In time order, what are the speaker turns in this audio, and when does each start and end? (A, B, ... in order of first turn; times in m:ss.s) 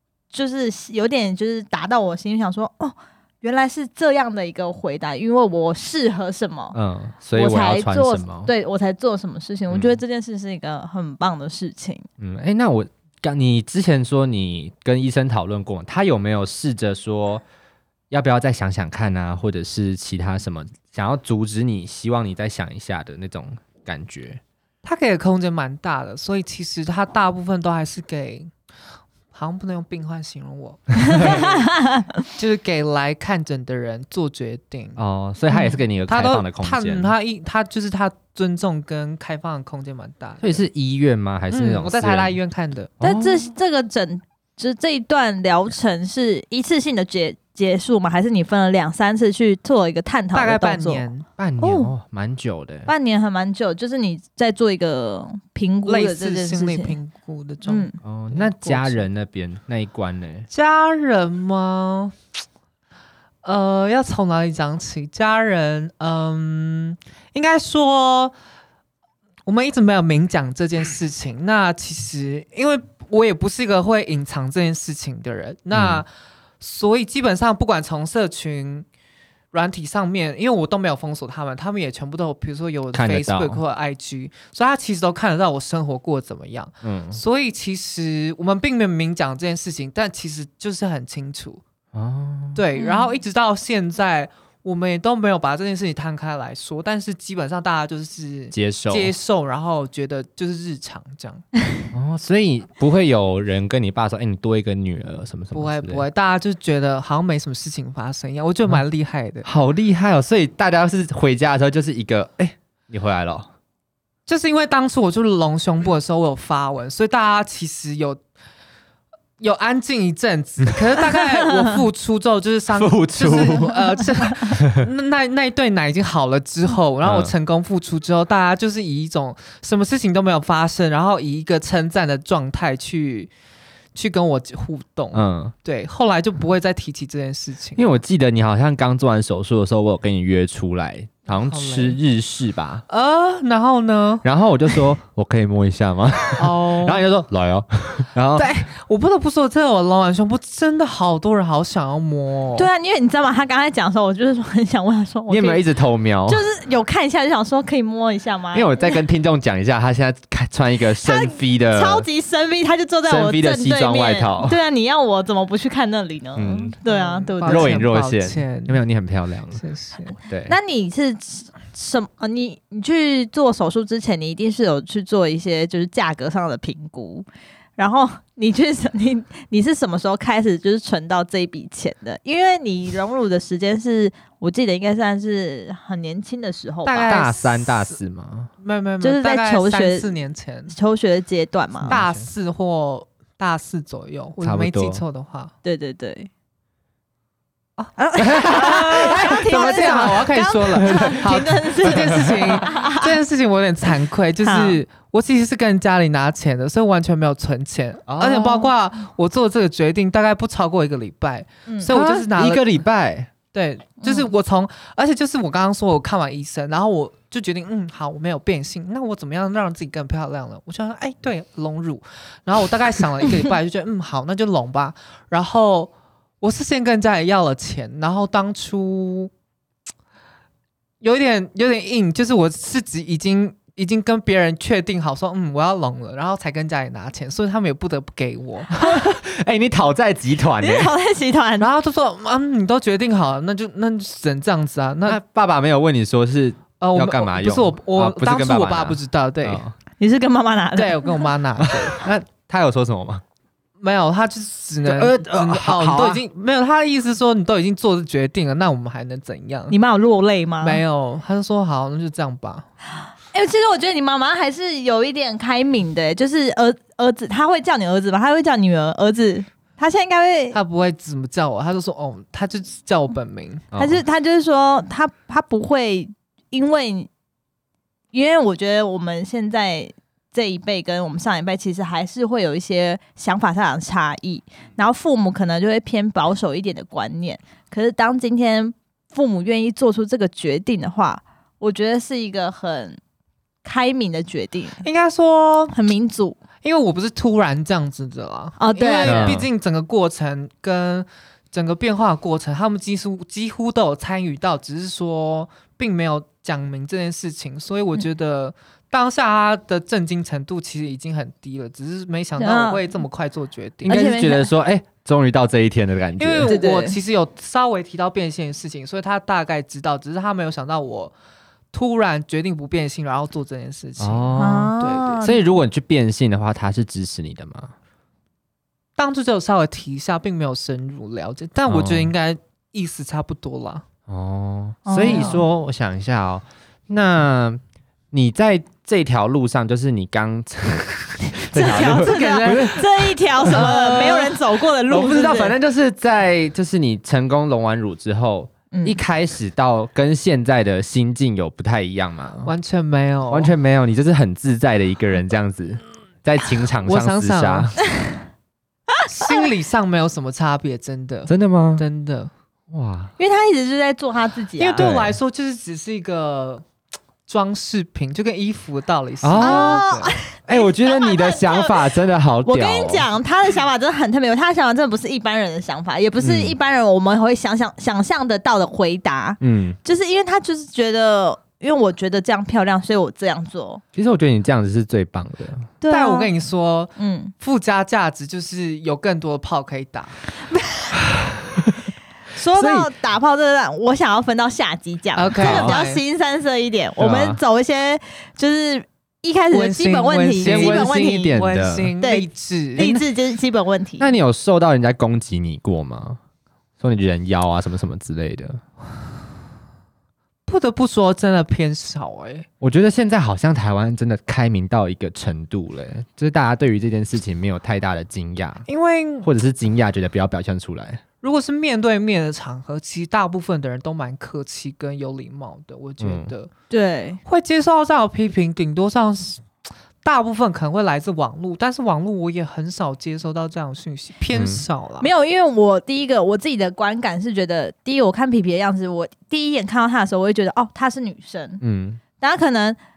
0:00.3-0:06.8 A
0:06.7-0:08.5 B
0:07.3-0:12.0 A
0:09.7-0:10.0 B
0:12.2-0:17.4 B
0:18.1-0:24.4 B
0:24.8-0:28.5 C
0:29.3-0:31.7 C
0:31.0-0:32.2 A
0:32.3-0:35.0 C
0:35.0-0:37.1 B
0:35.5-0:35.8 A
0:36.1-0:40.6 C
0:40.4-0:42.4 B
0:41.5-0:42.9 C
0:43.0-0:43.4 B
0:43.0-0:51.0 A
0:50.3-0:51.3 C
0:51.4-0:52.9 B
0:51.6-0:51.9 A
0:52.9-0:57.0 A
0:55.8-0:59.0 C
0:57.6-0:57.9 A
0:58.0-1:00.5 B
1:00.5-1:02.1 C
1:03.4-1:08.3 C
1:09.4-1:16.1 C
1:15.7-1:16.0 B
1:16.6-1:18.8 C
1:19.5-1:31.6 C
1:22.9-1:23.6 B
1:26.8-1:27.2 B
1:31.9-1:32.6 B
1:32.5-1:41.4 C
1:32.8-1:33.1 A
1:38.5-1:39.1 B
1:41.9-1:46.0 B
1:45.5-1:49.4 C
1:49.4-1:53.5 B
1:54.3-1:58.2 C
1:59.4-2:13.3 C
2:02.7-2:04.8 B
2:07.0-2:07.3 B
2:13.9-2:17.9 C
2:15.1-2:15.5 B
2:17.8-2:22.8 B
2:21.3-2:22.0 C
2:22.9-2:24.2 C
2:24.2-2:28.6 B
2:26.4-2:27.0 C
2:28.4-2:32.7 C
2:32.5-2:35.6 A
2:35.3-2:36.4 B
2:36.3-2:39.0 A
2:38.5-2:42.1 B
2:41.0-2:47.8 A
2:43.1-2:44.6 B
2:46.4-2:46.7 B
2:46.8-2:48.8 C
2:47.4-2:49.6 B
2:49.5-2:50.1 C
2:50.3-2:50.6 B
2:50.5-3:07.2 A
3:06.8-3:08.0 C
3:06.9-3:08.5 B
3:08.6-3:10.7 C
3:09.0-3:10.1 A
3:10.7-3:12.0 A
3:11.8-3:12.3 B
3:11.9-3:15.5 C
3:14.4-3:15.0 B
3:15.6-3:16.3 A
3:17.8-3:32.8 C
3:18.0-3:23.2 A
3:18.2-3:20.2 B
3:20.7-3:22.6 B
3:24.4-3:24.8 A
3:28.1-3:28.7 B
3:31.9-3:33.3 B
3:33.5-3:49.3 C
3:34.0-3:34.3 A
3:51.0-3:58.9 C
3:58.8-4:00.9 B
4:00.6-4:01.7 A
4:01.6-4:05.2 C
4:05.0-4:09.7 B
4:06.8-4:09.6 C
4:10.0-4:11.2 A
4:10.8-4:12.0 C
4:11.6-4:13.2 B
4:13.8-4:19.7 C
4:14.8-4:16.2 B
4:19.7-4:20.8 A
4:20.6-4:22.6 C
4:23.3-4:30.6 A
4:30.5-4:33.7 C
4:33.7-4:34.0 B
4:33.8-4:37.1 A
4:38.1-4:53.0 A
4:53.6-4:54.8 A
4:54.8-4:55.7 C
4:55.7-4:56.4 A
4:56.6-5:14.0 C
4:58.6-4:59.4 A
4:59.0-4:59.5 B
5:12.4-5:12.8 A
5:13.8-5:16.5 B
5:13.8-5:14.5 A
5:16.2-5:21.1 C
5:16.4-5:17.0 A
5:21.7-5:25.2 C
5:24.0-5:27.7 B
5:24.4-5:25.4 A
5:29.0-5:33.8 C
5:31.7-5:32.1 B
5:34.1-5:37.6 B
5:34.8-5:35.4 A
5:35.0-5:35.4 C
5:38.1-5:44.3 B
5:41.5-5:45.6 A
5:41.6-5:42.8 C
5:43.5-5:44.3 C
5:44.9-5:52.5 B
5:48.7-5:49.0 A
5:52.4-5:53.5 C
5:53.3-5:57.8 B
5:56.8-5:57.7 C
5:59.1-6:02.3 C
6:01.3-6:01.8 B
6:02.7-6:03.1 B
6:03.2-6:04.8 A
6:04.6-6:06.6 C
6:04.8-6:05.2 B
6:07.3-6:10.1 C
6:09.2-6:09.8 B
6:09.4-6:11.8 A
6:10.4-6:13.1 B
6:12.4-6:23.8 A
6:16.2-6:16.5 B
6:19.4-6:19.8 B
6:23.9-6:25.7 B
6:25.8-6:26.3 A
6:25.9-6:30.2 C
6:27.0-6:27.3 A
6:31.0-6:31.9 B
6:32.3-6:41.4 A
6:32.5-6:32.9 B
6:35.1-6:36.0 C
6:35.4-6:35.8 B
6:37.0-6:37.4 B
6:39.5-6:43.0 C
6:40.4-6:41.9 B
6:42.0-6:44.1 A
6:44.0-6:46.2 B
6:46.8-6:48.6 B
6:50.5-6:52.5 C
6:52.6-6:58.6 B
6:58.7-6:59.3 C
6:59.2-7:01.0 B
7:01.2-7:06.5 C
7:06.0-7:06.3 B
7:06.7-7:07.2 A
7:07.2-7:09.4 C
7:10.0-7:15.1 C
7:14.3-7:14.6 B
7:15.0-7:21.6 A
7:21.6-7:22.0 B
7:22.2-7:22.8 A